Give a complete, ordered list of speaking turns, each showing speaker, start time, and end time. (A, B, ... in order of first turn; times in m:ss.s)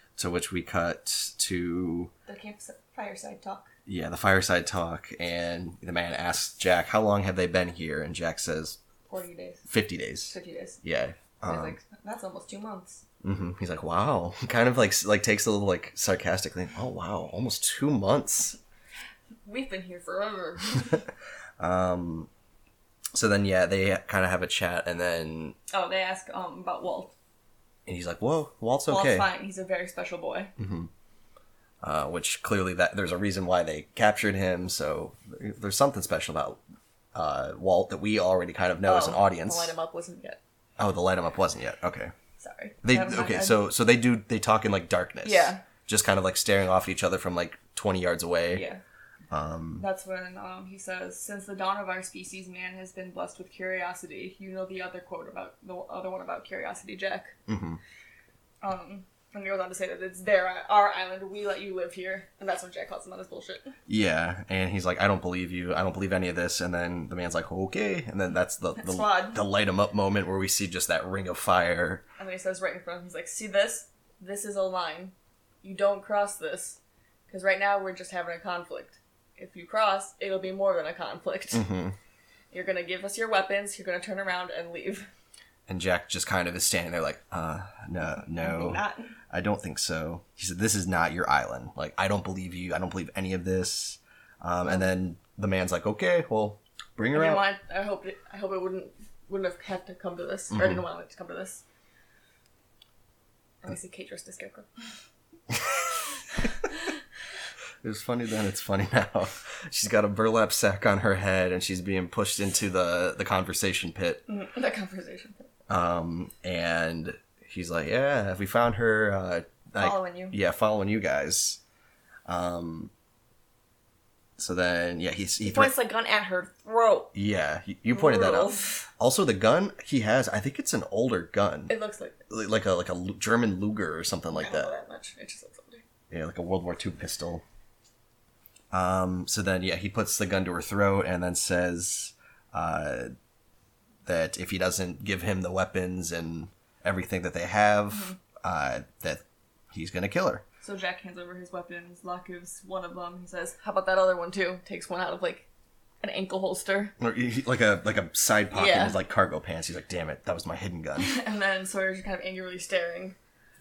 0:00.2-0:02.1 A
0:02.3-0:03.7 B
0:03.8-0:08.8 A
0:09.1-0:09.6 B
0:09.7-0:11.8 A
0:10.3-0:10.8 B
0:11.4-0:13.0 B
0:13.2-0:18.6 A
0:19.4-0:21.0 B
0:21.6-0:22.3 A
0:23.1-0:25.6 A
0:25.7-0:27.1 B
0:27.8-0:29.3 A
0:28.9-0:30.5 B
0:30.6-0:30.9 A
0:31.8-0:36.6 A
0:37.1-0:39.7 A
0:38.8-0:40.4 B
0:40.8-0:42.1 A
0:42.4-0:43.6 B
0:42.8-0:48.6 A
0:45.2-0:45.6 B
0:48.5-0:48.8 B
0:49.3-0:49.8 A
0:49.8-0:57.4 B
0:57.5-0:57.8 A
0:58.6-1:03.7 B
1:03.9-1:12.0 A
1:08.8-1:09.4 B
1:12.2-1:21.7 B
1:21.5-1:22.0 A
1:22.5-1:25.1 B
1:25.7-1:37.4 A
1:28.4-1:29.1 B
1:37.1-1:41.6 B
1:40.5-1:40.8 A
1:43.6-1:44.7 B
1:47.8-1:54.2 A
1:54.3-1:55.5 B
1:55.7-2:01.6 A
1:59.8-2:00.4 B
2:02.3-2:02.9 A
2:04.4-2:05.7 A
2:05.4-2:07.1 B
2:07.1-2:11.7 A
2:07.9-2:08.8 B
2:11.7-2:12.2 B
2:12.3-2:14.7 A
2:14.3-2:15.8 B
2:16.1-2:17.4 A
2:18.7-2:23.1 A
2:24.0-2:30.4 A
2:27.9-2:28.2 B
2:30.6-2:35.5 B
2:36.0-2:36.9 B
2:37.0-2:41.1 A
2:38.5-2:39.0 B
2:41.0-2:43.2 B